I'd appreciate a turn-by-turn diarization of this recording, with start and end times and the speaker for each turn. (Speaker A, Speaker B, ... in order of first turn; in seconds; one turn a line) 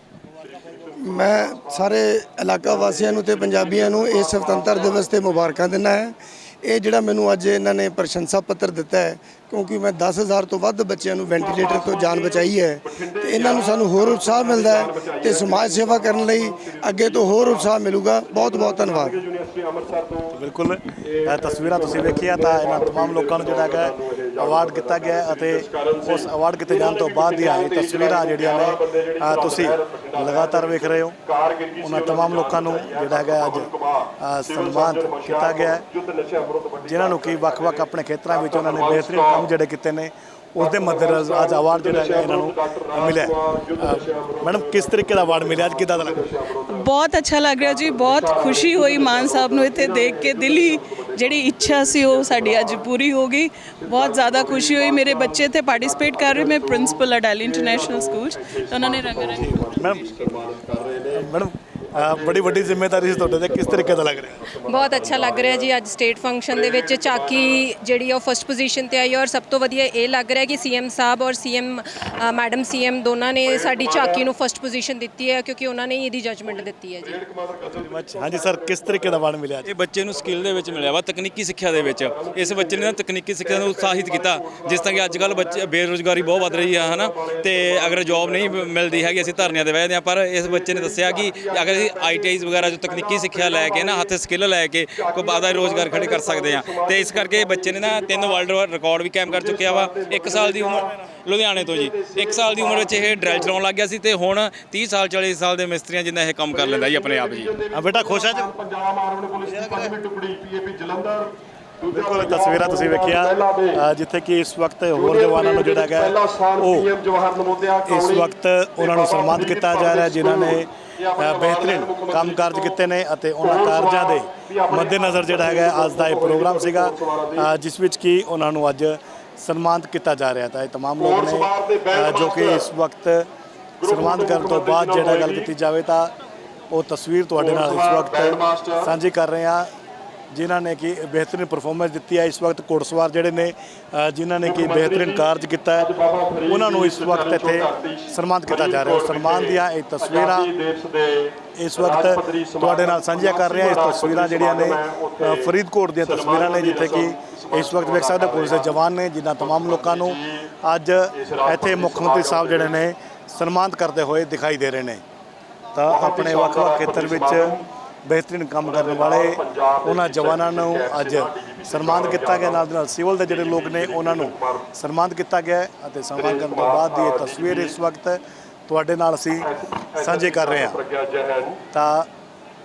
Speaker A: 0.4-2.0
Speaker B: 1.0-19.2
Speaker A: 2.6-5.7
Speaker A: 11.3-20.4
Speaker C: 20.3-31.2
Speaker A: 21.0-39.5
Speaker C: 31.8-35.9
Speaker C: 36.8-46.2
Speaker A: 40.6-47.0
Speaker D: 46.7-59.9
Speaker A: 47.6-53.0
Speaker A: 53.8-61.4
Speaker C: 59.3-60.1
Speaker C: 61.1-64.5
Speaker A: 61.9-65.8
Speaker E: 64.6-77.2
Speaker A: 66.5-67.7
Speaker A: 73.5-74.3
Speaker A: 76.4-79.3
Speaker C: 77.7-79.7
Speaker F: 79.7-107.5
Speaker A: 80.0-81.0
Speaker A: 81.7-89.7
Speaker A: 90.4-94.2
Speaker A: 94.9-98.5
Speaker A: 99.2-101.0
Speaker A: 101.5-103.6
Speaker A: 106.5-113.8
Speaker C: 107.7-108.5
Speaker C: 109.5-110.0
Speaker C: 111.9-116.9
Speaker A: 114.9-122.8
Speaker C: 117.9-133.3
Speaker A: 123.4-127.5
Speaker A: 131.0-132.7
Speaker A: 133.8-135.5
Speaker C: 133.8-136.1
Speaker C: 136.7-139.7
Speaker A: 137.3-139.0
Speaker C: 140.3-145.9
Speaker A: 144.4-158.8
Speaker C: 146.5-150.5
Speaker C: 151.6-165.0
Speaker A: 159.4-160.5
Speaker A: 161.1-162.9
Speaker C: 165.8-180.8
Speaker A: 165.9-167.7
Speaker A: 168.6-172.7
Speaker A: 173.2-174.7
Speaker A: 176.2-177.8
Speaker A: 179.4-181.6
Speaker C: 181.7-182.1